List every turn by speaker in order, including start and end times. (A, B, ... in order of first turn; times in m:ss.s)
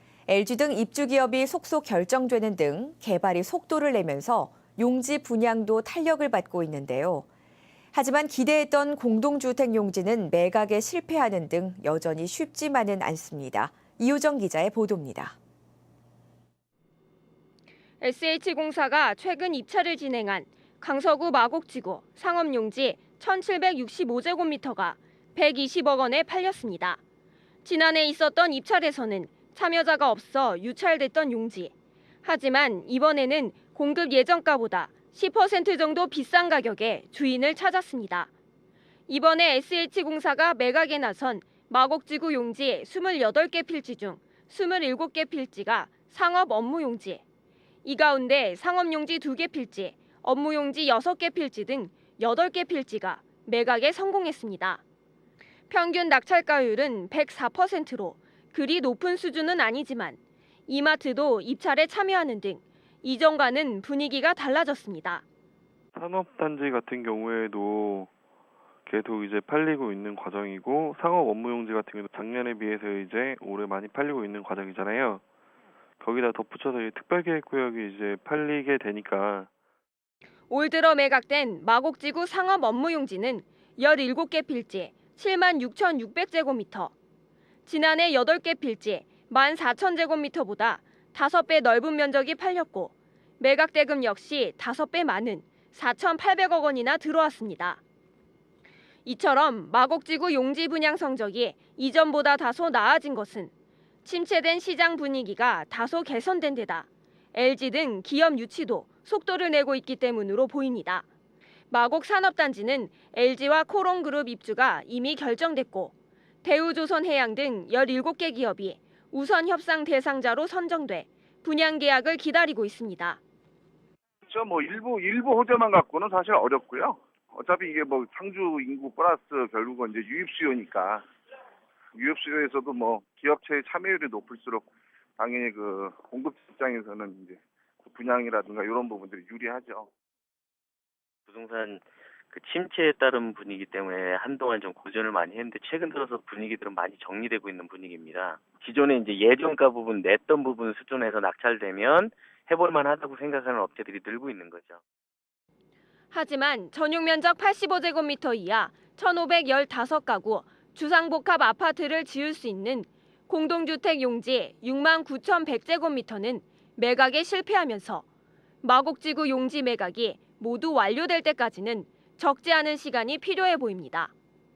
0:00.3-0:07.2 A
0:07.9-0:15.3 A
0:18.0-0:27.0 B
0:27.6-0:31.7 B
0:32.2-0:38.3 B
0:39.1-0:47.2 B
0:47.8-0:54.8 B
0:55.7-1:05.2 B
1:05.9-1:08.1 C
1:08.8-1:15.2 C
1:16.0-1:19.5 C
1:20.5-1:26.9 B
1:27.6-1:37.8 B
1:39.0-1:43.5 B
1:44.0-1:51.0 B
1:51.7-2:03.2 B
2:04.2-2:11.0 D
2:11.9-2:14.7 D
2:15.2-2:19.9 D
2:21.3-2:34.8 E
2:36.1-2:48.0 B
2:48.6-2:54.1 B